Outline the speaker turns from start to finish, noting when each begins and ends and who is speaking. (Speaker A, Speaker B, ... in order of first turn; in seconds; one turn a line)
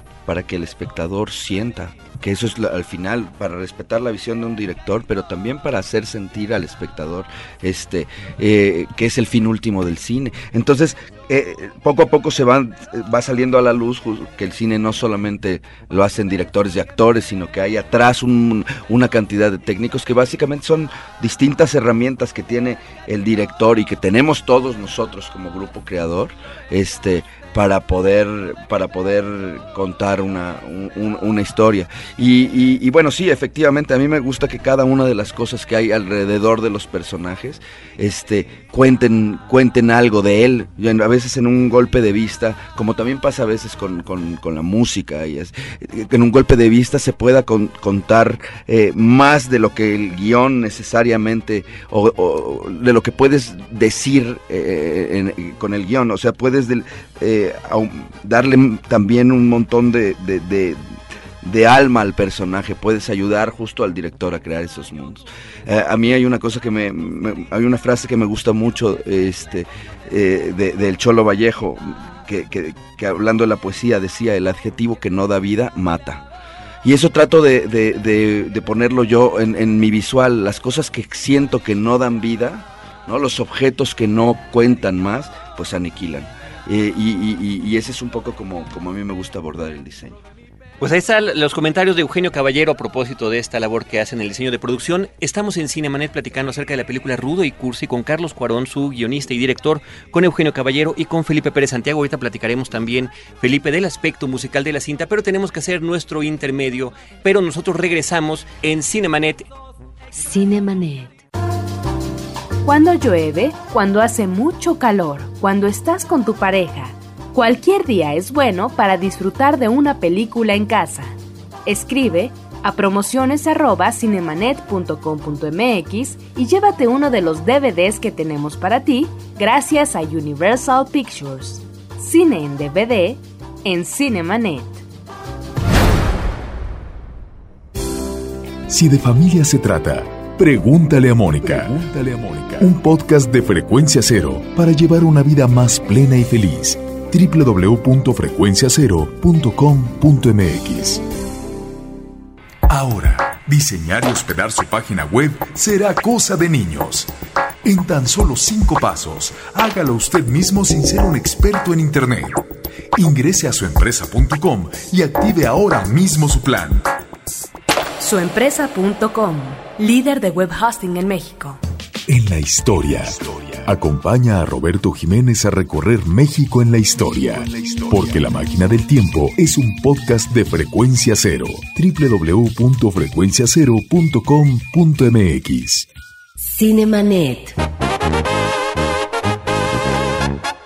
Speaker A: 0.3-76.2
Speaker A: 76.8-90.2
Speaker B: 90.8-109.5
Speaker C: 110.1-111.2
Speaker D: 112.6-134.8
Speaker E: 138.7-151.0
Speaker E: 152.7-157.1
Speaker E: 157.7-166.9
Speaker D: 168.0-171.6
Speaker E: 172.1-185.9
Speaker C: 186.4-187.6